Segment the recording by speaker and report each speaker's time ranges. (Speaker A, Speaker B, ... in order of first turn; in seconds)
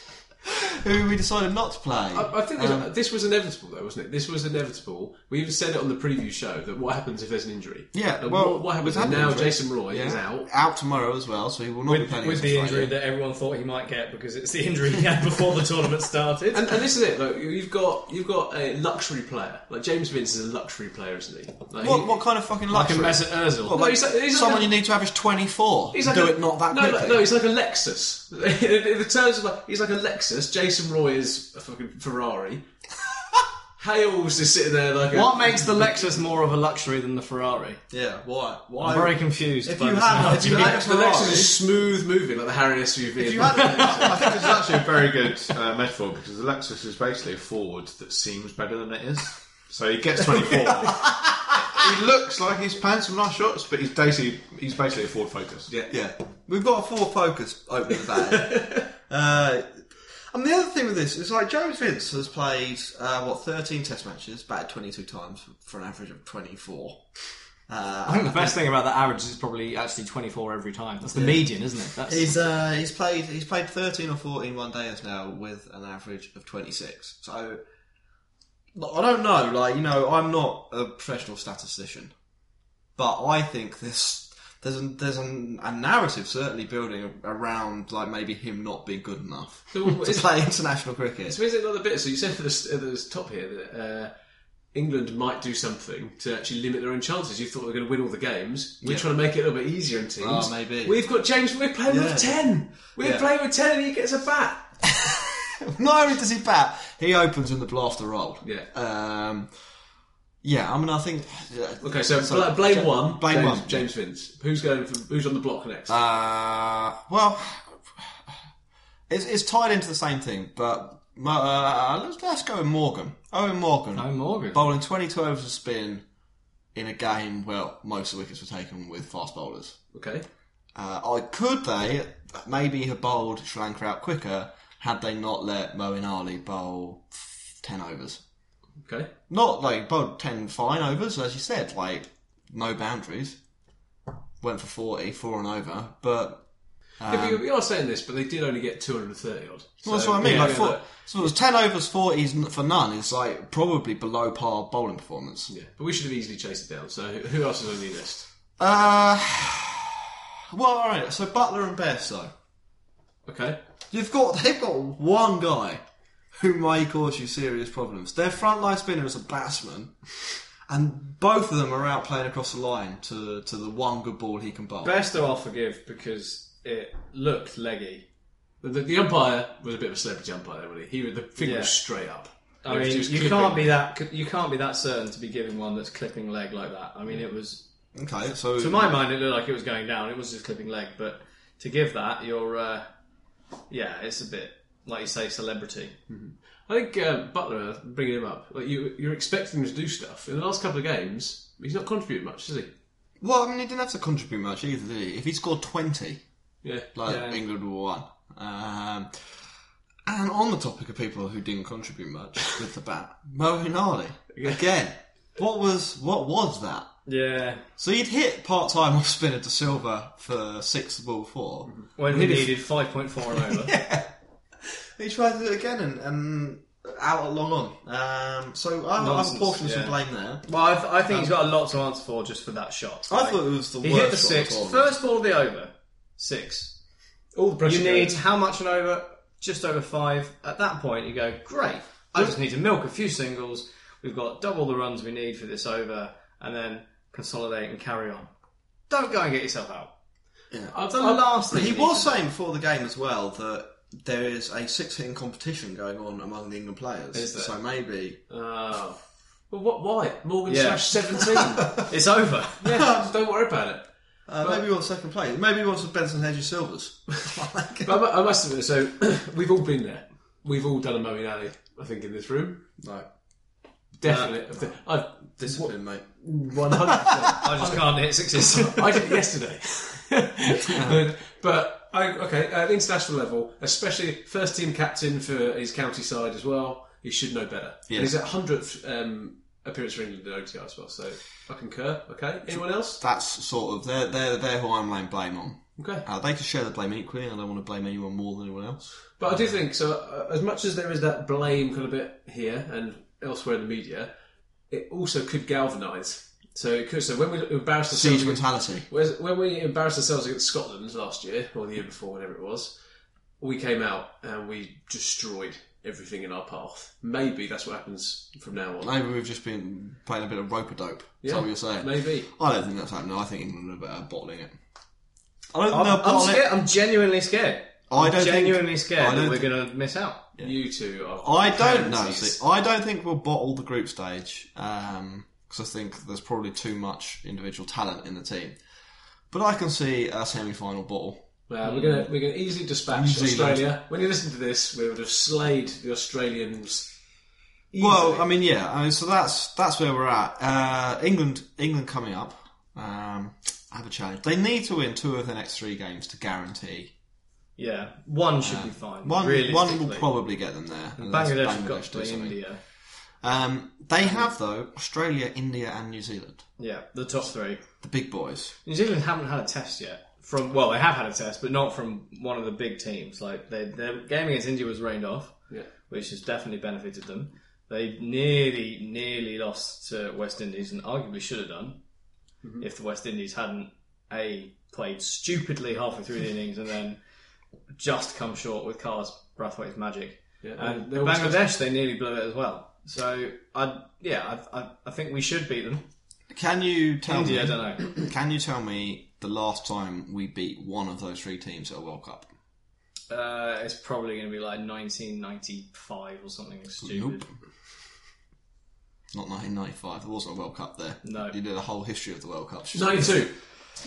Speaker A: 0.5-2.9, 7.9-12.9, 21.8-27.2, 37.9-41.5, 43.2-44.6, 55.9-59.8, 60.3-67.0, 67.7-68.6, 71.1-71.5, 72.0-77.6, 78.7-82.1, 83.0-91.4, 98.8-99.1, 100.2-101.0, 101.8-103.2, 105.0-109.5, 110.4-113.8, 115.9-118.3, 119.1-126.0, 126.7-129.8, 130.7-138.2, 139.3-143.4, 144.4-146.4, 147.0-147.4, 149.8-155.5, 158.6-162.3, 163.9-165.8, 166.3-174.9, 187.9-189.0, 203.2-206.2, 206.9-209.2, 210.1-216.9, 217.8-222.5, 223.3-224.1, 224.7-230.4, 231.0-231.4, 233.1-234.9, 250.5-250.8, 251.5-258.2, 262.7-263.1, 264.3-268.0, 272.8-273.1, 275.4-277.6, 280.6-281.1, 287.9-288.1, 292.5-299.5, 307.9-308.9, 318.8-324.5, 325.5-326.5, 327.9-329.5, 331.2-338.6, 339.3-341.2, 342.9-343.7, 347.8-356.9, 358.4-362.4, 363.2-366.4, 367.8-368.5, 396.3-402.3, 406.8-407.3, 409.1-413.3
Speaker B: 2.1-10.5, 16.5-22.1, 23.6-24.7, 25.9-32.6, 33.8-35.9, 40.1-44.2, 58.2-58.9, 89.7-90.3, 91.3-94.1, 94.7-104.7, 111.8-116.0, 129.9-130.3, 138.8-139.1, 147.1-151.1, 155.5-158.3, 163.2-163.6, 178.6-183.8, 196.1-202.7, 206.6-206.9, 214.3-214.6, 237.3-238.2, 250.7-251.4, 258.3-261.8, 262.6-264.6, 267.8-272.6, 274.0-293.0, 295.8-296.0, 299.2-304.1, 304.7-312.7, 313.4-318.9, 321.2-322.3, 330.4-332.4, 341.5-346.9, 347.7-348.2, 390.4-391.5, 412.7-413.3
Speaker C: 11.9-16.7, 22.7-23.8, 35.1-37.8, 38.8-40.8, 68.0-72.3, 124.0-124.7, 150.2-150.6, 174.8-178.1, 181.4-181.7, 182.6-187.6, 188.6-192.9, 193.7-195.9, 207.1-207.4, 217.1-217.6, 222.0-223.7, 229.0-236.8, 237.6-248.3, 248.9-249.9, 250.9-252.2, 257.1-257.5, 260.5-262.6, 274.0-274.3, 277.4-279.0, 325.7-330.2, 357.6-360.1, 361.0-362.6, 366.6-367.6, 368.6-375.4, 375.9-381.8, 382.6-387.0, 387.8-395.8, 397.1-397.9, 403.1-407.2, 411.0-411.3
Speaker D: 43.9-55.7